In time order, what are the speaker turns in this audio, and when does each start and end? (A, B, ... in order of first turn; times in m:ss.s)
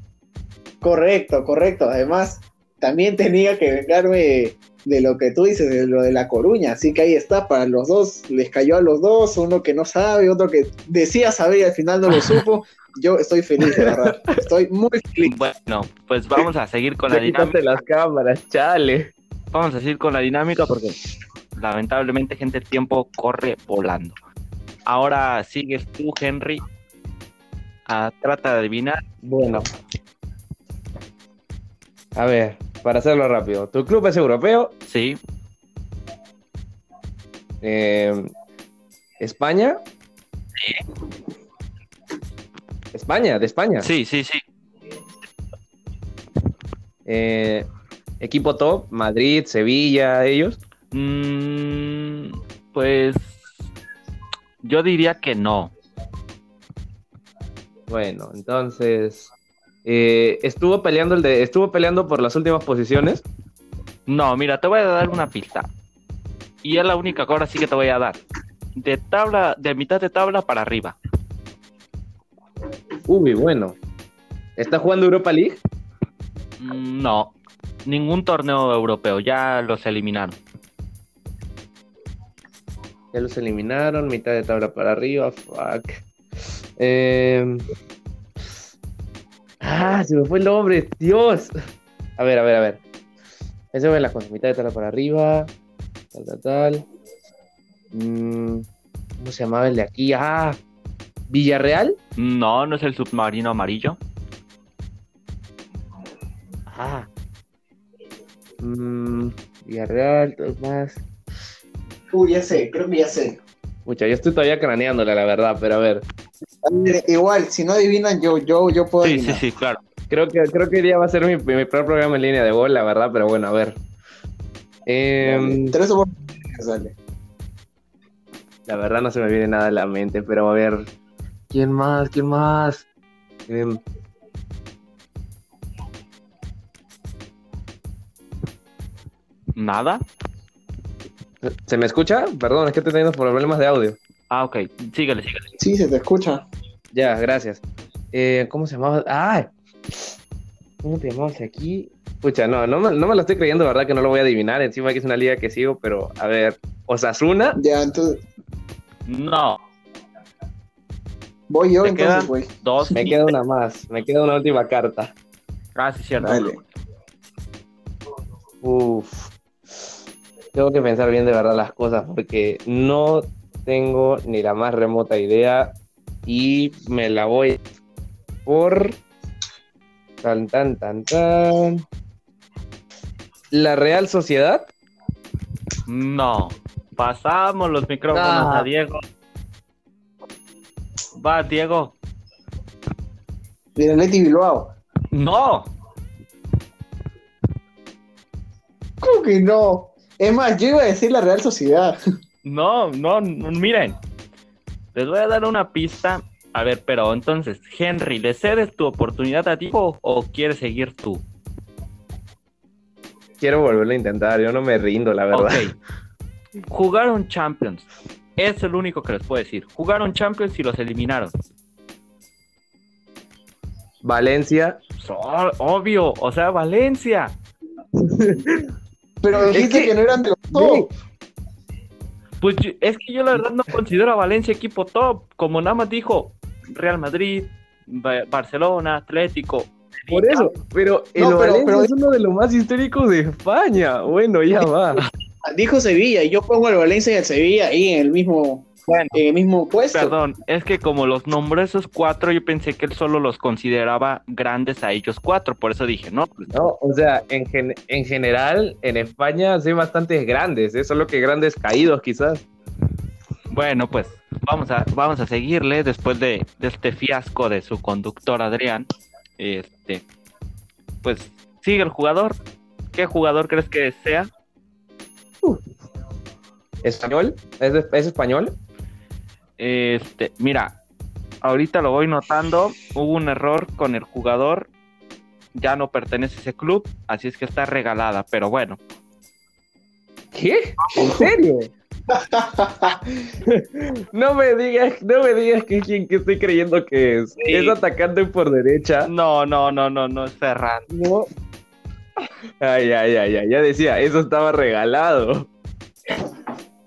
0:00.8-0:15.4 A
0:13.6-0:14.3 B
0:15.2-0:17.6 C
0:17.1-0:19.1 B
0:19.5-0:21.0 C
0:21.6-0:24.2 C
0:24.9-0:26.6 C
0:27.9-0:29.6 C
0:29.2-0:29.7 B
0:32.2-0:34.7 B
0:34.9-0:35.2 C
0:37.6-0:38.3 B
0:39.2-0:39.8 B
0:40.6-0:40.8 C
0:42.9-0:43.9 B
0:43.8-0:44.4 C
0:47.0-0:47.7 B
0:48.2-0:50.6 B
0:50.9-0:53.5 C
0:54.6-0:55.7 C
0:57.9-0:59.3 B
0:59.8-1:03.2 B
1:04.1-1:05.7 C
1:06.6-1:08.2 C
1:08.8-1:11.0 C
1:13.1-1:13.8 B
1:14.6-1:15.6 B
1:16.6-1:17.3 C
1:17.8-1:20.4 C
1:23.1-1:26.0 B
1:26.8-1:27.6 B
1:29.6-1:31.6 B
1:32.2-1:32.8 B
1:33.7-1:35.5 B
1:36.1-1:36.8 B
1:37.9-1:38.6 B
1:39.2-1:40.6 B
1:41.3-1:42.0 B
1:42.2-1:44.0 C
1:46.7-1:47.1 B
1:48.6-1:51.0 B
1:52.1-1:53.4 A
1:53.8-1:56.0 B
1:56.6-1:59.4 A
1:59.0-1:59.8 C
2:00.1-2:03.8 B
2:04.9-2:05.8 B
2:05.2-2:06.9 A
2:08.7-2:10.9 B
2:11.5-2:12.8 B
2:13.5-2:13.8 B
2:19.5-2:20.0 C
2:21.4-2:24.0 B
2:24.3-2:25.6 C
2:25.6-2:26.4 A
2:26.9-2:30.1 B
2:30.8-2:37.6 B
2:37.6-2:38.2 A
2:39.1-2:39.6 C
2:41.5-2:42.5 A
2:41.8-2:43.3 C
2:42.9-2:45.1 B
2:45.8-2:46.6 C
2:46.2-2:46.6 A
2:48.6-2:49.3 B
2:50.5-2:55.7 B
2:56.3-2:57.6 B
2:58.4-2:59.0 B
3:00.2-3:01.8 B
3:03.5-3:04.7 B
3:05.9-3:09.0 C
3:08.1-3:08.7 B
3:11.2-3:11.9 C
3:13.8-3:14.7 A
3:15.1-3:15.7 C
3:19.0-3:22.0 A
3:22.4-3:24.0 C
3:24.9-3:31.2 C
3:33.4-3:35.7 B
3:35.3-3:35.7 C
3:36.7-3:41.3 C
3:44.0-3:44.8 B
3:45.0-3:47.4 C
3:48.0-3:48.7 B
3:49.2-3:50.9 A
3:49.4-3:50.0 B
3:50.5-3:50.9 B
3:52.4-4:00.6 C
4:00.1-4:05.0 B
4:01.2-4:01.9 A
4:05.4-4:10.1 A
4:08.9-4:09.2 C
4:09.9-4:16.5 C
4:16.5-4:22.4 B
4:23.5-4:30.0 C
4:31.0-4:32.4 C
4:32.9-4:34.3 C
4:36.8-4:38.6 B
4:39.6-4:40.8 C
4:41.4-4:44.7 C
4:45.5-4:48.8 C
4:50.3-4:51.7 B
4:51.0-4:51.3 A
4:52.1-4:53.0 A
4:53.4-4:59.1 B
4:57.4-4:57.8 C
4:59.0-5:00.9 C
5:00.9-5:01.3 B
5:02.6-5:05.5 B